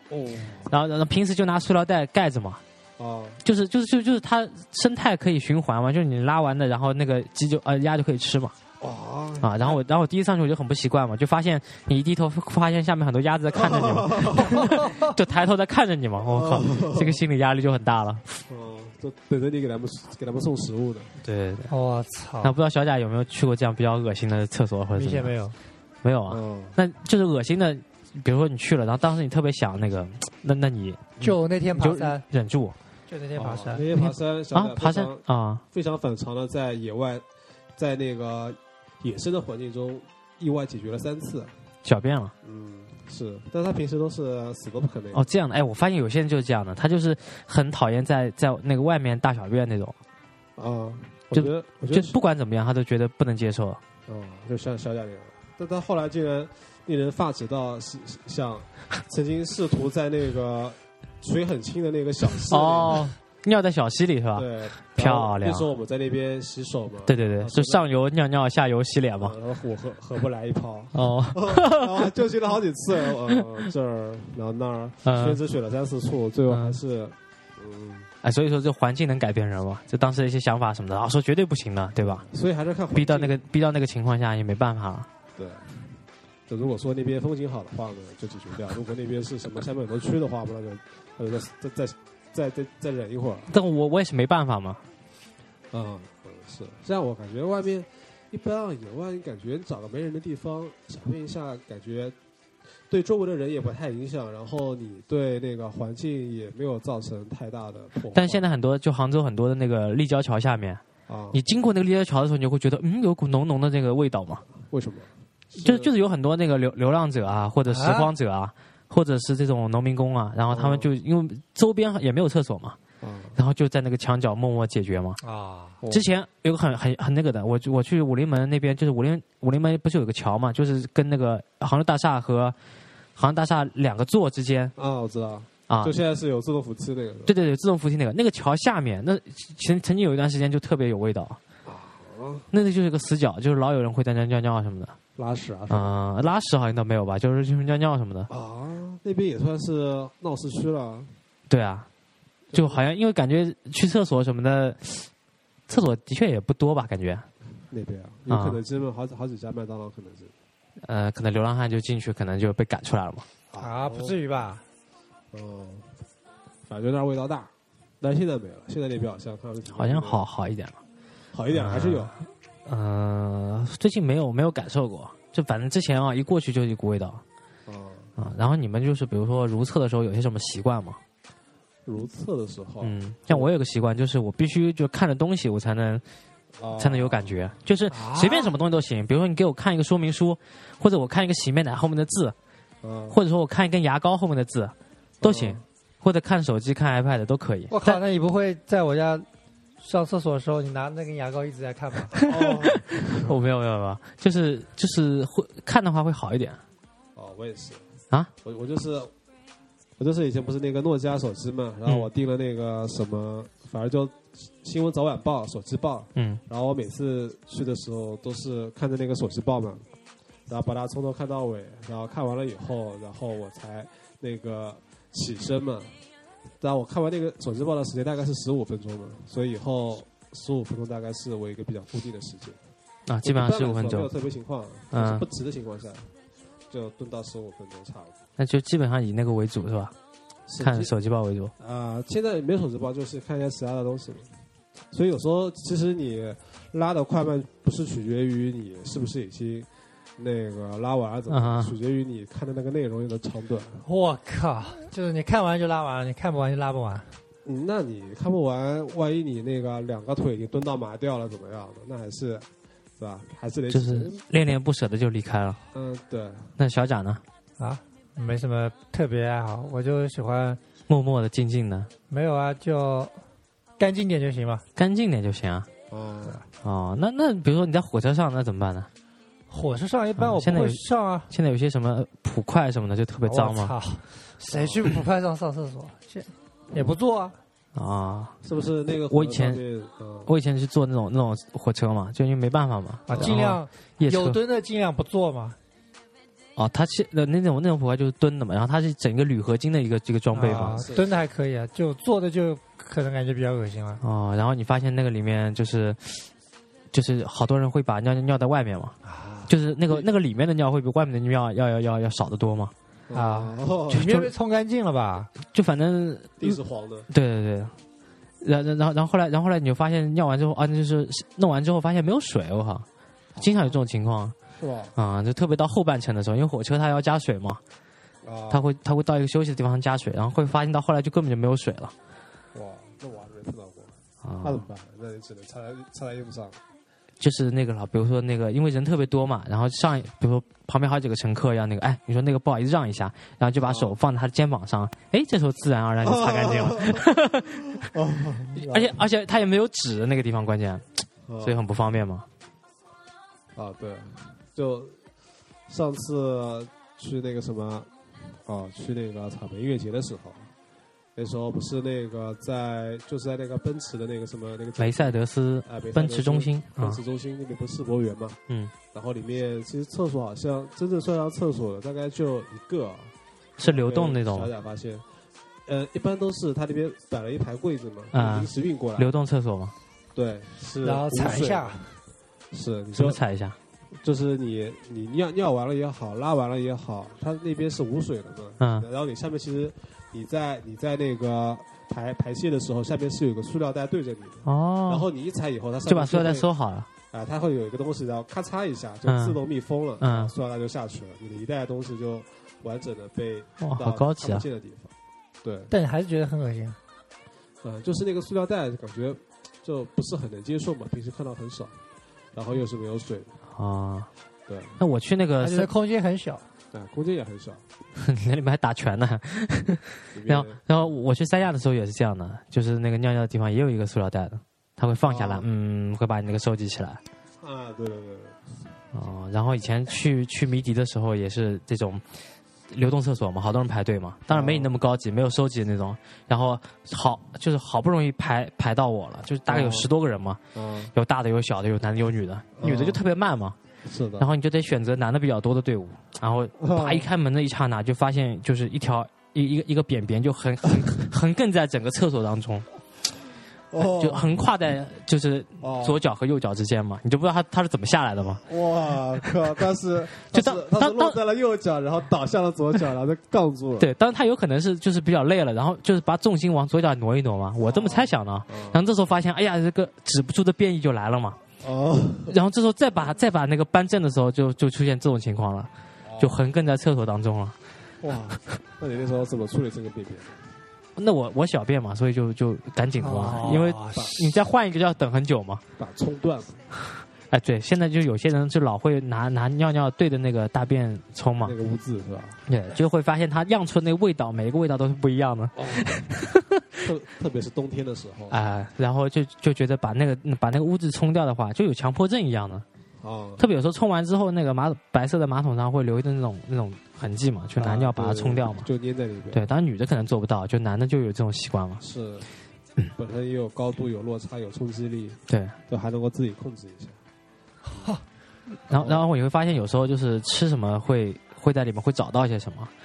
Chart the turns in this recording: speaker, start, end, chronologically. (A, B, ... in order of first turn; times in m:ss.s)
0:00.1-0:00.7 A
0:00.7-0:02.6 B
0:03.0-0:03.4 A
0:03.4-0:08.6 B
0:08.8-0:09.8 A
0:09.4-0:18.4 B
0:13.5-0:14.7 A
0:14.8-0:15.1 C
0:16.2-0:17.2 A
0:18.5-0:21.2 A
0:21.2-0:21.7 B
0:21.7-0:22.5 C
0:22.4-0:25.3 B
0:25.0-0:25.6 C
0:26.0-0:32.8 B
0:26.3-0:26.8 A
0:31.2-0:32.2 C
0:33.1-0:33.8 C
0:33.4-0:37.2 A
0:33.9-0:35.6 B
0:37.8-0:41.5 A
0:41.8-0:42.3 B
0:42.4-0:45.3 A
0:45.1-0:50.0 B
0:50.6-0:52.2 A
0:51.3-0:53.8 B
0:54.1-1:03.1 A
1:02.5-1:05.7 B
1:04.4-1:07.9 A
1:07.1-1:09.4 B
1:09.2-1:18.1 A
1:10.9-1:12.1 B
1:15.0-1:15.4 B
1:16.5-1:16.8 B
1:18.2-1:22.2 B
1:22.0-1:23.4 A
1:22.9-1:25.1 B
1:25.4-1:25.9 A
1:26.5-1:33.5 A
1:33.5-1:34.8 B
1:35.7-1:42.2 A
1:42.9-1:48.4 A
1:48.1-1:50.8 B
1:51.1-1:51.4 A
1:51.3-1:54.4 B
1:54.7-1:55.9 A
1:55.6-2:02.8 B
1:57.7-1:58.1 C
2:00.5-2:00.9 A
2:03.0-2:03.4 A
2:03.4-2:05.2 B
2:05.2-2:05.8 C
2:05.9-2:12.6 B
2:13.2-2:14.7 B
2:14.8-2:17.4 A
2:15.7-2:16.0 B
2:17.3-2:21.4 B
2:21.6-2:22.5 A
2:22.5-2:25.0 B
2:25.2-2:26.0 A
2:25.7-2:28.3 B
2:28.3-2:31.2 A
2:31.5-2:31.9 B
2:32.5-2:32.8 A
2:32.5-2:35.1 B
2:35.7-2:37.3 B
2:37.7-2:40.3 A
2:38.3-2:38.6 B
2:40.8-2:43.3 B
2:43.5-2:44.2 A
2:43.6-2:44.6 C
2:45.3-2:46.0 A
2:46.7-2:50.3 A
2:49.7-2:50.8 B
2:51.3-2:52.2 A
2:51.5-2:52.2 B
2:52.7-2:57.2 B
2:57.7-2:58.1 A
2:58.2-3:01.0 B
3:01.9-3:03.5 A
3:02.8-3:06.0 B
3:06.6-3:07.4 A
3:06.8-3:12.4 B
3:07.9-3:08.5 C
3:12.8-3:13.2 A
3:13.1-3:18.0 B
3:15.2-3:15.6 A
3:17.7-3:19.3 C
3:19.8-3:22.2 C
3:22.2-3:23.4 A
3:22.2-3:26.6 B
3:27.2-3:27.9 A
3:28.4-3:29.1 A
3:30.0-3:39.9 A
3:36.2-3:36.4 B
3:40.5-3:46.0 A
3:46.6-3:52.6 A
3:53.1-3:54.1 B
3:53.2-3:56.1 A
3:54.9-3:55.2 B
3:56.7-3:58.2 A
3:58.4-3:59.9 B
4:00.5-4:00.9 A
4:00.6-4:01.5 B
4:01.6-4:04.3 A
4:04.9-4:13.8 A
4:11.3-4:11.8 B
4:13.8-4:17.2 C
4:17.4-4:24.2 A
4:23.7-4:25.6 B
4:25.7-4:26.5 A
4:26.6-4:27.2 B
4:27.6-4:30.6 C
4:30.9-4:31.9 B
4:32.1-4:33.2 C
4:33.8-4:34.6 C
4:34.8-4:35.7 B
4:35.9-4:36.4 A
4:36.6-4:38.9 B
4:39.5-4:41.3 C
4:40.2-4:43.7 B
4:43.3-4:47.4 C
4:44.5-4:44.9 A
4:47.8-4:48.4 B
4:48.4-4:50.3 A
4:49.1-4:49.6 B
4:50.3-4:54.4 B
4:53.1-4:55.6 C
4:53.1-4:53.4 A
4:56.6-5:00.8 B
5:00.3-5:04.0 C
5:00.4-5:01.1 A
5:04.0-5:06.3 B
5:06.9-5:12.7 B
5:09.0-5:09.5 C
5:13.1-5:14.2 A
5:13.1-5:15.3 C
5:14.0-5:14.2 B
5:15.5-5:16.6 B
5:16.4-5:17.1 A
5:17.1-5:17.7 B
5:18.4-5:22.9 B
5:23.4-5:23.7 A
5:23.4-5:24.4 B
5:24.6-5:24.9 A
5:25.0-5:27.6 B
5:28.2-5:28.6 A
5:28.5-5:31.9 B
5:32.5-5:36.6 A
5:34.2-5:34.6 B
5:37.2-5:47.8 B
5:43.6-5:44.0 A
5:46.0-5:47.1 A
5:47.8-5:49.0 A
5:48.6-5:50.8 B
5:51.3-5:51.6 A
5:51.4-5:52.2 B
5:53.6-5:55.0 A
5:55.7-6:00.5 A
6:01.2-6:08.4 A
6:04.8-6:07.0 B
6:08.9-6:15.1 A
6:13.6-6:14.5 B
6:15.7-6:19.1 A
6:18.1-6:19.7 B
6:20.2-6:21.8 A
6:20.8-6:22.0 C
6:22.5-6:23.2 A
6:23.0-6:23.6 B
6:24.0-6:36.5 A
6:28.6-6:28.9 B
6:34.5-6:35.1 B
6:35.9-6:36.9 B
6:37.1-6:45.7 A
6:39.1-6:39.4 B
6:40.0-6:40.3 B
6:43.6-6:44.4 B
6:45.7-6:46.8 C
6:47.6-6:51.8 A
6:52.3-6:53.4 A
6:53.6-6:54.1 B
6:54.5-6:54.8 A
6:54.8-6:55.7 B
6:55.4-6:56.4 C
6:56.7-6:57.6 A
6:58.0-7:07.0 B
7:00.1-7:00.6 A
7:05.0-7:05.5 A
7:07.4-7:08.5 A
7:08.9-7:12.0 B
7:12.7-7:20.4 B
7:14.3-7:14.7 A
7:19.5-7:19.9 A
7:20.6-7:20.9 A
7:21.0-7:23.6 B
7:22.6-7:23.0 A
7:23.8-7:24.3 A
7:24.2-7:32.7 B
7:26.6-7:27.1 A
7:33.7-7:34.4 A
7:34.0-7:38.4 B
7:35.6-7:36.0 A
7:38.2-7:43.9 A
7:40.3-7:41.2 B
7:43.8-7:51.4 B
7:47.6-7:48.8 A
7:51.6-7:52.4 A
7:52.3-7:57.6 B
7:56.0-7:56.4 A
7:58.0-8:00.5 A
8:01.0-8:05.6 B
8:03.0-8:04.3 C
8:03.4-8:04.1 A
8:05.8-8:06.7 A
8:07.3-8:11.6 B
8:11.4-8:12.4 A
8:12.5-8:16.9 B
8:15.6-8:16.0 A
8:16.8-8:18.4 A
8:18.3-8:22.6 B
8:23.0-8:23.5 A
8:23.4-8:28.7 B
8:27.6-8:29.5 A
8:29.3-8:31.8 B
8:31.8-8:32.3 A
8:33.0-8:37.0 A
8:35.3-8:35.6 B
8:37.7-8:38.0 C
8:38.7-8:42.7 B
8:38.7-8:39.0 A